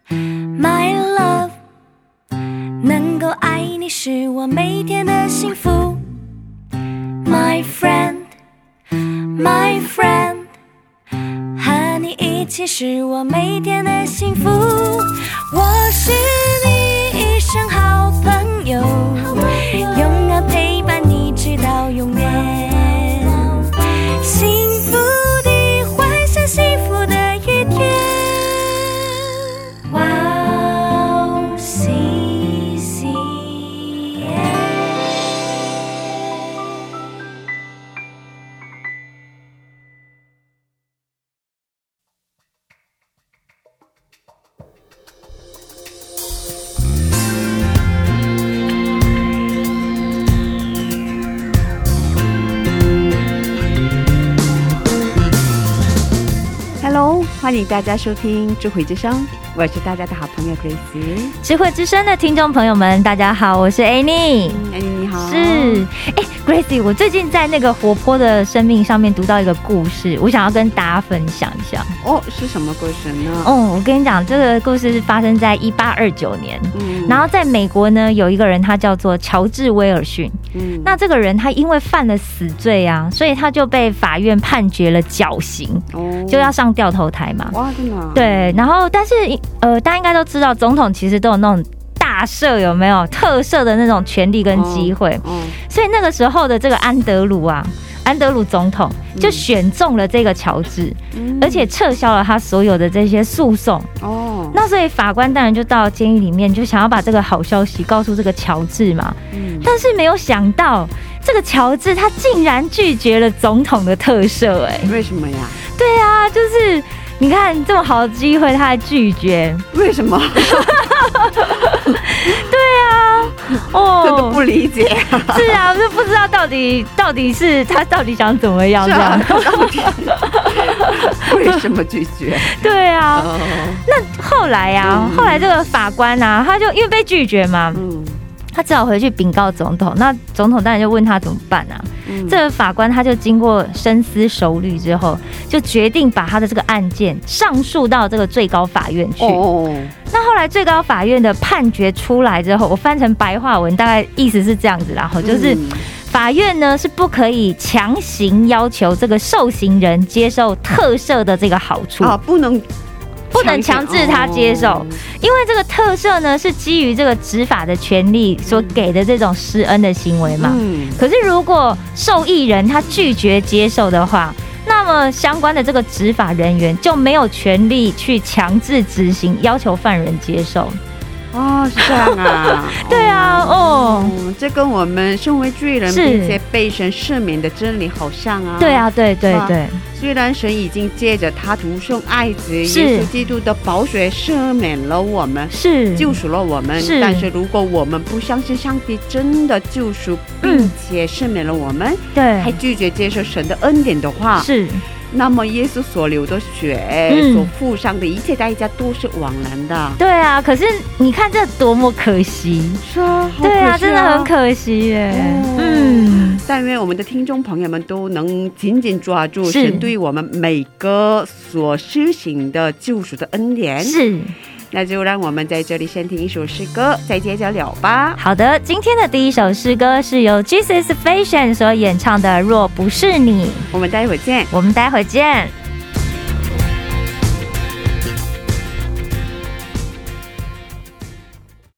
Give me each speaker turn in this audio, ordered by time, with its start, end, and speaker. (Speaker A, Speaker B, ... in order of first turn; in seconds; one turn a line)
Speaker A: 0.2-1.6
Speaker A: 2.8-6.0
Speaker A: 7.2-8.3
Speaker A: 8.9-10.5
Speaker A: 11.5-29.2
Speaker A: 29.9-35.2
Speaker B: 56.8-61.3
Speaker C: 61.4-64.6
Speaker B: 64.5-65.8
Speaker C: 65.2-71.9
Speaker B: 72.0-73.5
Speaker C: 73.4-87.5
Speaker B: 76.7-77.2
Speaker B: 80.5-81.0
Speaker B: 85.9-86.5
Speaker B: 87.5-88.7
Speaker C: 88.1-103.9
Speaker B: 94.5-95.6
Speaker B: 99.1-99.5
Speaker B: 101.1-101.7
Speaker B: 104.0-104.6
Speaker C: 104.5-114.9
Speaker B: 109.3-109.7
Speaker B: 114.8-115.6
Speaker C: 115.7-119.6
Speaker B: 119.7-120.8
Speaker C: 120.4-124.4
Speaker B: 123.5-125.6
Speaker C: 125.3-131.1
Speaker B: 128.8-132.6
Speaker C: 132.5-137.8
Speaker B: 133.1-133.8
Speaker B: 134.8-135.5
Speaker B: 137.7-138.2
Speaker C: 138.5-149.4
Speaker B: 142.1-142.4
Speaker B: 149.2-149.9
Speaker C: 150.1-162.2
Speaker B: 155.2-155.8
Speaker B: 162.0-162.7
Speaker B: 163.3-165.0
Speaker C: 163.3-180.8
Speaker B: 168.4-168.8
Speaker B: 170.3-171.0
Speaker B: 181.3-204.5
Speaker C: 181.8-184.1
Speaker C: 185.9-186.4
Speaker C: 188.6-189.8
Speaker C: 192.6-193.1
Speaker C: 195.5-196.2
Speaker C: 196.8-197.3
Speaker C: 200.4-200.7
Speaker C: 202.1-202.6
Speaker C: 204.4-204.8
Speaker B: 205.1-210.0
Speaker C: 207.1-207.5
Speaker C: 210.0-212.8
Speaker B: 212.8-214.3
Speaker C: 213.4-216.4
Speaker B: 215.1-224.0
Speaker C: 219.4-219.9
Speaker C: 223.8-224.3
Speaker B: 224.7-228.2
Speaker C: 228.2-233.7
Speaker B: 233.7-234.5
Speaker C: 234.5-235.5